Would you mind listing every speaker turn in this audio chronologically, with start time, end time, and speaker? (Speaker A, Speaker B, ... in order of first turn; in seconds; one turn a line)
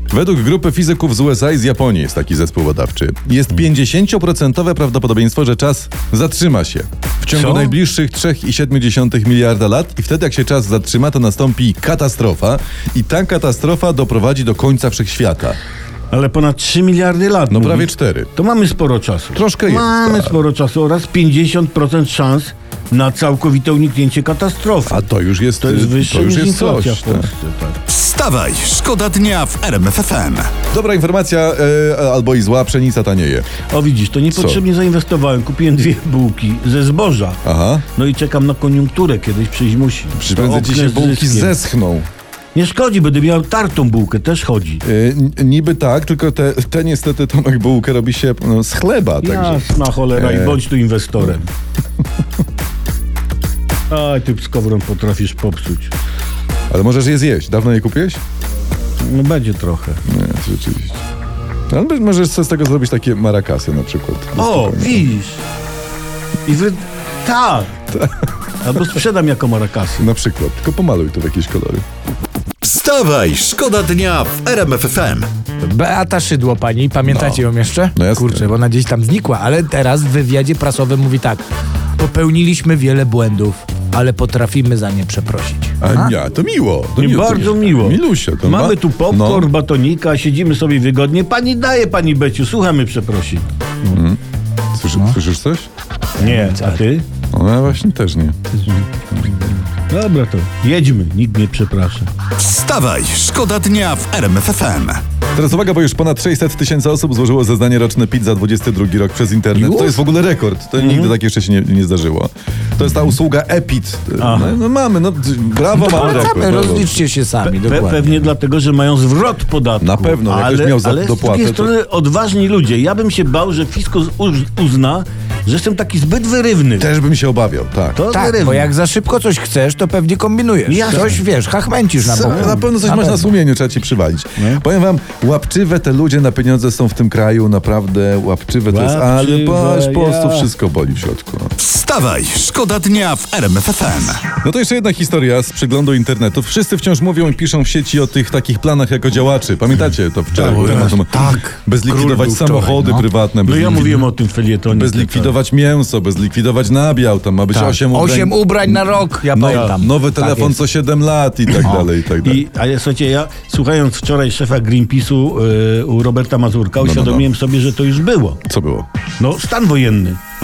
Speaker A: 0.1-15.6
Speaker B: 7.3-7.8
Speaker B: 16.1-27.8
Speaker A: 17.5-18.3
Speaker A: 19.4-20.4
Speaker A: 24.9-27.3
Speaker C: 27.9-30.5
Speaker A: 30.7-33.5
Speaker B: 33.7-41.6
Speaker A: 34.4-34.6
Speaker A: 37.5-37.8
Speaker A: 40.2-42.1
Speaker B: 42.5-44.8
Speaker A: 44.9-50.6
Speaker B: 49.2-51.5
Speaker B: 53.9-55.9
Speaker A: 56.7-58.2
Speaker B: 59.0-60.0
Speaker A: 60.1-61.0
Speaker A: 61.7-65.1
Speaker B: 64.4-65.4
Speaker B: 66.5-67.8
Speaker A: 67.9-68.3
Speaker B: 68.6-70.1
Speaker A: 70.0-71.8
Speaker C: 72.6-75.3
Speaker D: 75.6-81.5
Speaker A: 77.1-77.4
Speaker A: 78.0-78.5
Speaker D: 82.0-86.2
Speaker A: 85.8-89.5
Speaker B: 87.0-94.0
Speaker A: 93.9-94.2
Speaker A: 94.7-95.7
Speaker D: 96.2-96.8
Speaker B: 96.2-97.1
Speaker A: 97.3-98.4
Speaker A: 99.1-99.5
Speaker B: 99.9-102.1
Speaker C: 102.4-105.0
Speaker A: 105.3-117.0
Speaker D: 109.5-110.0
Speaker B: 110.8-111.1
Speaker B: 114.2-114.6
Speaker D: 115.7-118.2
Speaker B: 116.0-116.3
Speaker B: 117.4-126.9
Speaker A: 119.8-121.7
Speaker A: 126.8-128.0
Speaker B: 128.0-128.7
Speaker D: 128.1-133.3
Speaker B: 130.7-131.2
Speaker A: 132.0-141.5
Speaker B: 132.3-132.6
Speaker B: 134.4-134.6
Speaker B: 138.7-140.5
Speaker C: 141.6-144.2
Speaker A: 144.4-154.1
Speaker B: 150.3-152.3
Speaker D: 150.5-153.1
Speaker B: 153.4-155.4
Speaker A: 154.7-162.5
Speaker D: 157.5-160.6
Speaker B: 159.5-159.8
Speaker D: 161.6-161.9
Speaker B: 162.2-168.4
Speaker A: 166.8-167.3
Speaker A: 168.5-168.9
Speaker B: 169.2-170.2